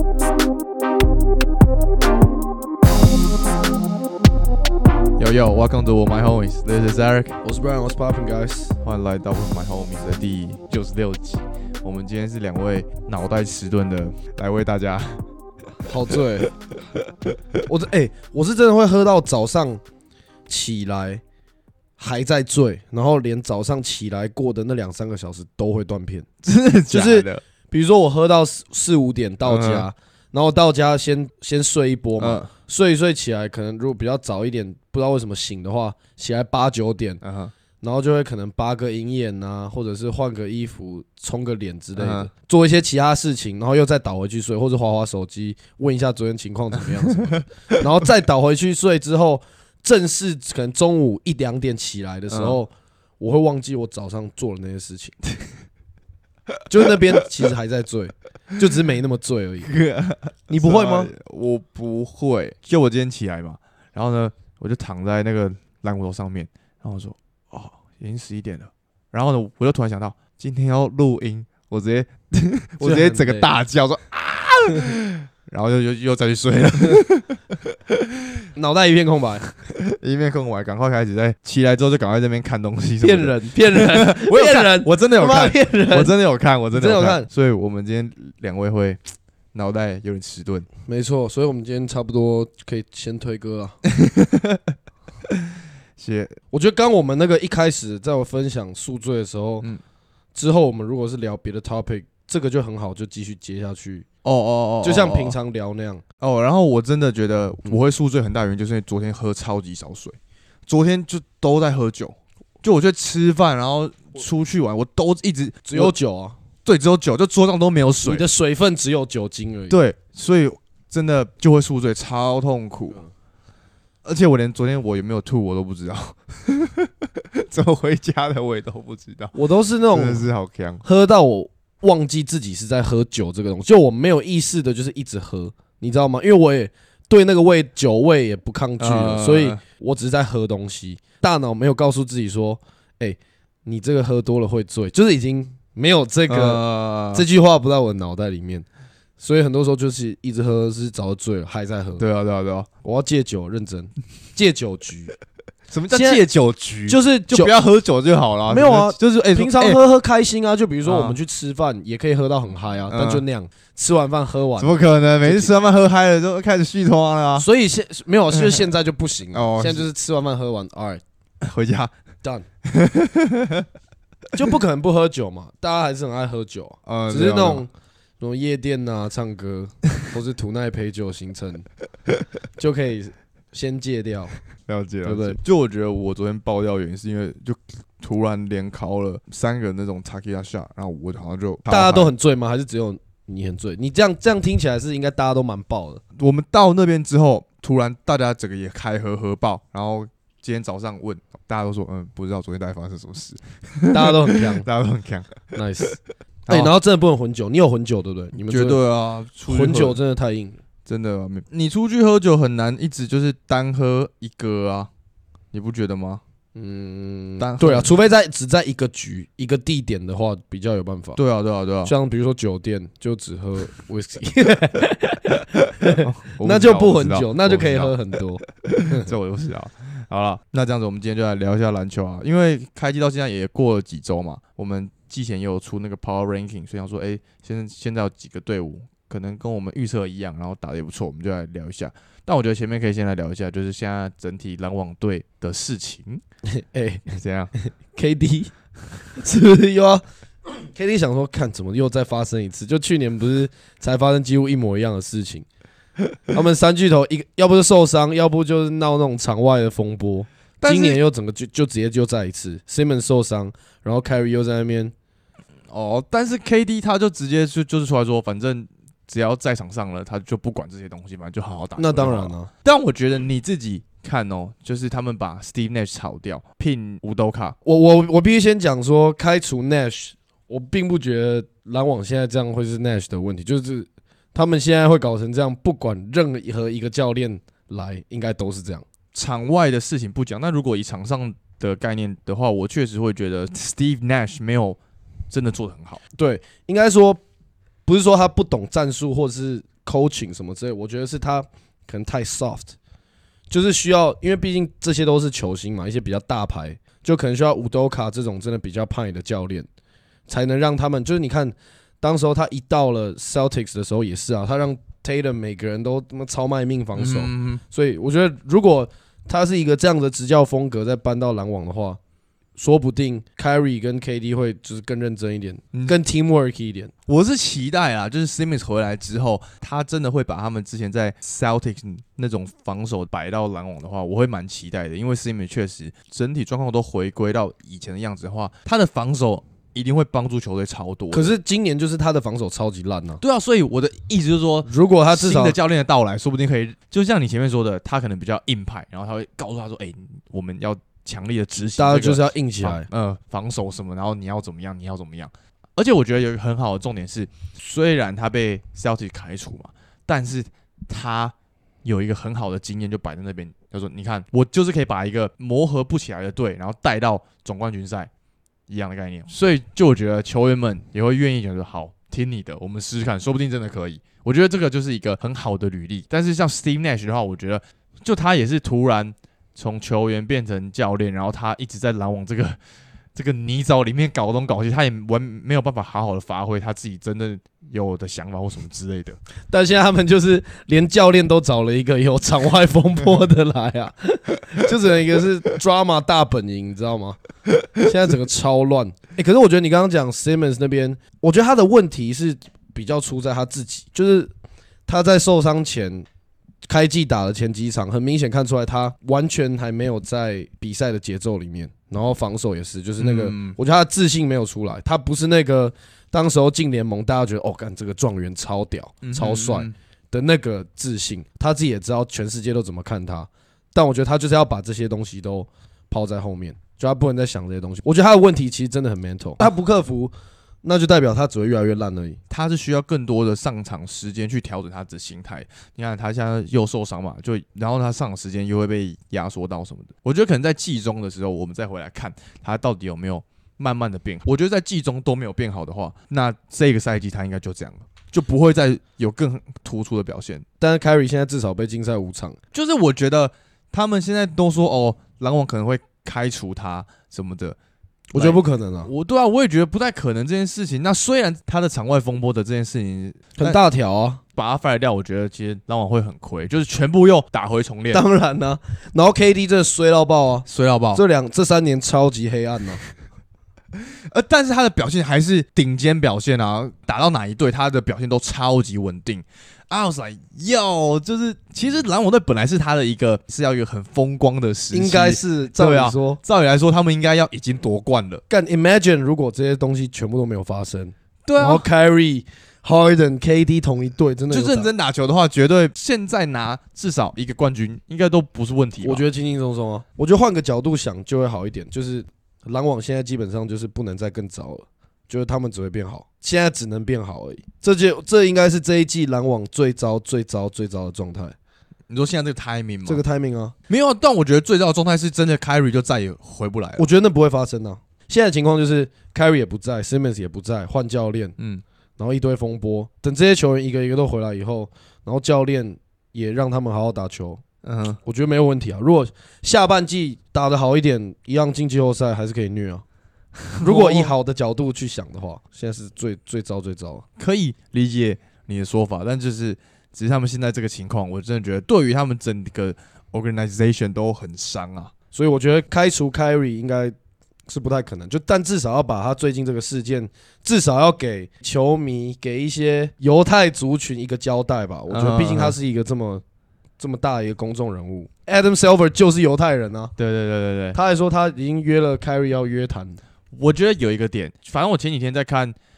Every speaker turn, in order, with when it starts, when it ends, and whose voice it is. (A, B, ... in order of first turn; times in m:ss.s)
0:05.2-0:07.4 A
0:07.4-0:08.8 B
0:08.8-0:15.2 A
0:15.9-0:16.5 B
0:17.7-0:19.8 B
0:20.5-0:21.2 B
0:22.0-0:26.3 B
0:26.4-0:27.4 A
0:26.9-0:37.2 B
0:29.5-0:29.9 A
0:32.2-0:32.5 A
0:37.2-0:37.5 A
0:37.8-0:55.2 B
0:42.0-0:42.3 A
0:52.3-0:52.6 A
0:56.7-0:59.7 B
0:59.7-1:18.4 A
1:00.5-1:01.1 B
1:12.8-1:13.5 B
1:18.6-1:19.5 B
1:19.7-1:29.0 A
1:23.0-1:26.1 B
1:26.7-1:27.3 B
1:29.5-1:30.7 A
1:30.9-1:33.8 B
1:33.9-1:34.7 A
1:35.3-1:36.4 A
1:36.5-1:39.7 B
1:40.4-1:44.1 B
1:44.2-1:45.4 A
1:44.8-1:46.0 B
1:46.2-1:55.9 A
1:55.7-1:56.4 B
1:56.6-1:58.3 A
1:58.0-1:59.8 B
1:59.7-2:03.0 A
2:04.0-2:09.4 A
2:09.4-2:10.3 B
2:09.9-2:10.8 A
2:10.8-2:28.7 B
2:18.8-2:19.6 A
2:26.3-2:27.2 A
2:29.2-2:32.0 B
2:32.0-2:32.7 A
2:32.8-2:35.1 B
2:35.7-2:39.8 A
2:35.9-2:36.2 B
2:36.9-2:37.5 B
2:38.5-2:45.5 B
2:40.8-2:41.2 A
2:42.9-2:43.2 A
2:44.6-2:47.5 A
2:47.4-2:51.0 B
2:48.3-2:48.7 A
2:49.3-2:49.9 A
2:51.4-2:51.9 A
2:52.6-2:53.7 A
2:54.3-3:01.7 B
2:56.9-2:57.6 A
3:02.6-3:04.4 B
3:04.7-3:12.1 A
3:05.0-3:05.4 B
3:11.7-3:16.0 B
3:16.2-3:25.8 A
3:23.9-3:24.7 B
3:25.5-3:26.0 B
3:26.5-3:26.7 A
3:26.5-3:28.8 B
3:28.5-3:30.0 A
3:29.5-3:30.6 B
3:30.9-3:34.9 A
3:35.5-3:36.2 A
3:36.6-3:41.2 B
3:37.4-3:37.9 A
3:41.2-3:41.9 A
3:41.8-3:49.1 B
3:45.8-3:48.0 A
3:48.5-4:06.2 A
4:06.5-4:07.1 B
4:07.1-4:07.5 A
4:07.6-4:15.5 B
4:16.3-4:24.9 B
4:20.6-4:21.0 A
4:25.7-4:37.6 A
4:31.8-4:32.5 B
4:37.6-4:48.8 B
4:49.1-4:54.8 A
4:55.3-4:56.0 A
4:56.2-4:57.2 B
4:57.9-5:02.8 B
5:03.5-5:09.7 B
5:10.3-5:22.0 B
5:17.0-5:17.6 A
5:22.6-5:26.9 B
5:27.1-5:41.4 A
5:41.1-5:43.2 B
5:43.2-6:08.1 A
5:44.6-5:45.6 B
5:51.8-5:52.9 B
6:08.7-6:22.6 A
6:23.2-6:29.2 A
6:29.5-6:37.2 B
6:37.8-6:44.3 B
6:44.9-6:46.1 B
6:46.7-7:10.1 B
6:53.0-6:53.6 A
6:59.0-6:59.7 A
7:10.6-7:12.2 B
7:12.3-7:30.4 A
7:30.6-7:32.4 B
7:32.5-7:37.6 A
7:38.1-7:38.9 B
7:38.2-7:43.6 A
7:43.4-7:44.2 B
7:44.4-7:48.0 A
7:47.9-7:52.8 B
7:50.5-7:51.0 A
7:53.8-8:08.2 A
8:04.7-8:06.2 B
8:08.3-8:14.7 B
8:11.2-8:11.7 A
8:14.3-8:19.0 A
8:18.8-8:31.4 B
8:31.9-8:33.0 A
8:32.8-8:33.6 B
8:33.7-8:36.9 A
8:36.8-8:41.4 B
8:41.4-8:41.6 A
8:42.0-8:47.4 B
8:47.6-8:48.0 A
8:48.0-8:52.8 B
8:53.5-8:54.1 A
8:53.6-8:57.0 B
8:57.2-9:04.9 A
9:05.1-9:07.0 B
9:07.5-9:16.2 B
9:14.9-9:15.6 A
9:16.8-9:19.9 B
9:20.0-9:20.8 A
9:20.7-9:23.0 B
9:23.3-9:25.6 A